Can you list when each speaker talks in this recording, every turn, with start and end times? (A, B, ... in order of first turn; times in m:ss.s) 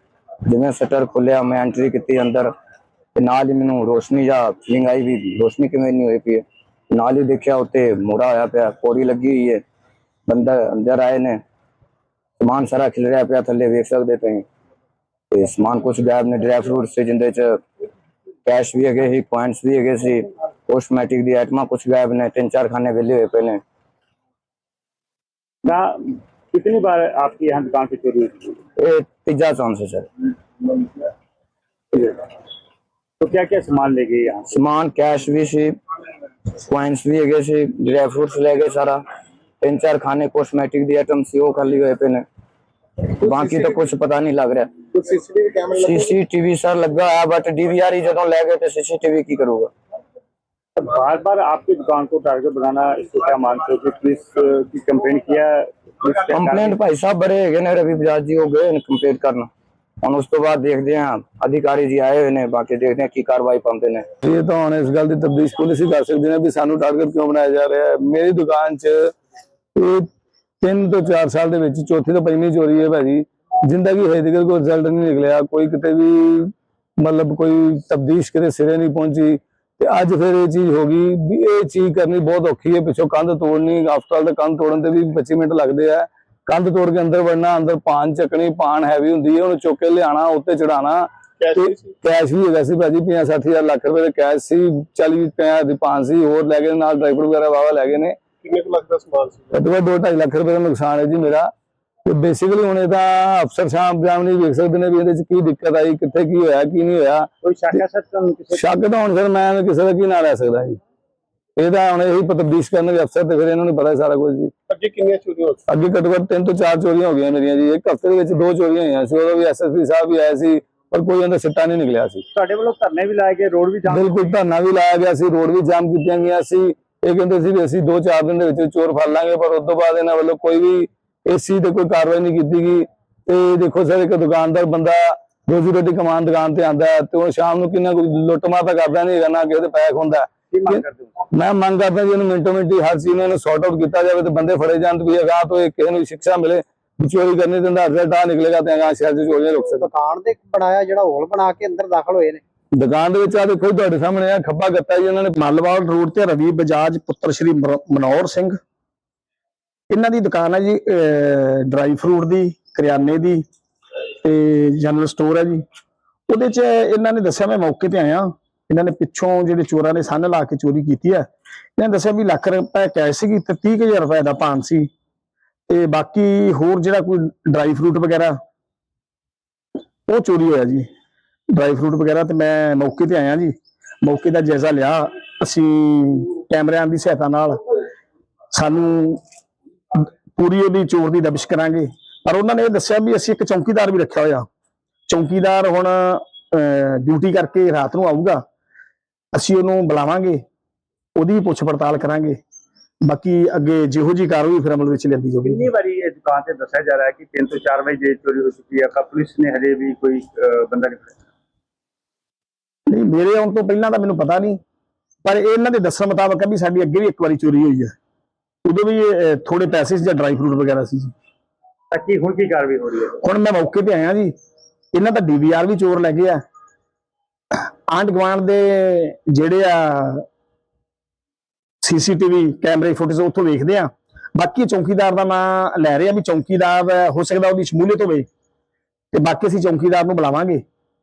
0:00.4-0:02.5 A
0:03.2-0:09.6 A
0:10.3-0:11.4 A
0:12.4-0:14.4 A
0:15.3-0:17.6 A
0:18.4-0:23.6 A
0:25.6-0:28.6 B
0:28.8-0:30.1 A
0:31.9-0:32.2 B
0:33.2-0:34.5 B
0:34.5-0:35.8 A
0:36.5-0:39.0 A
0:39.6-0:42.2 A
0:43.2-0:44.7 A
0:43.3-0:43.8 C
0:44.9-0:46.1 C
0:45.8-0:49.7 A
0:50.8-0:56.8 B
0:56.3-0:59.5 A
1:00.0-1:04.1 A
1:04.2-1:09.1 D
1:09.8-1:10.1 D
1:10.6-1:38.2 D
1:31.4-1:31.9 C
1:38.4-1:39.6 C
1:39.5-1:41.5 D
1:42.0-1:47.8 D
1:47.4-1:48.7 B
1:48.5-1:50.8 D
1:51.6-1:54.5 D
1:54.7-1:55.6 C
1:55.7-2:02.2 D
2:02.3-2:04.3 B
2:03.9-2:29.9 D
2:20.5-2:21.2 B
2:29.5-2:32.4 E
2:32.7-2:35.4 D
2:35.4-2:38.6 F
2:39.9-2:43.4 F
2:44.2-2:45.6 F
2:46.3-2:54.9 F
2:55.7-2:58.3 F
3:00.1-3:00.8 F
3:01.5-3:07.6 F
3:08.5-3:09.2 F
3:09.9-3:14.5 F
3:15.1-3:18.4 F
3:19.3-3:20.4 F
3:21.2-3:22.4 F
3:23.0-3:25.7 F
3:25.4-3:31.1 B
3:32.9-3:34.6 F
3:35.2-3:37.9 F
3:38.7-3:41.1 F
3:41.9-3:43.2 B
3:43.2-3:44.3 F
3:44.9-3:46.4 F
3:47.9-3:50.2 F
3:51.8-3:58.2 F
3:59.1-4:00.6 F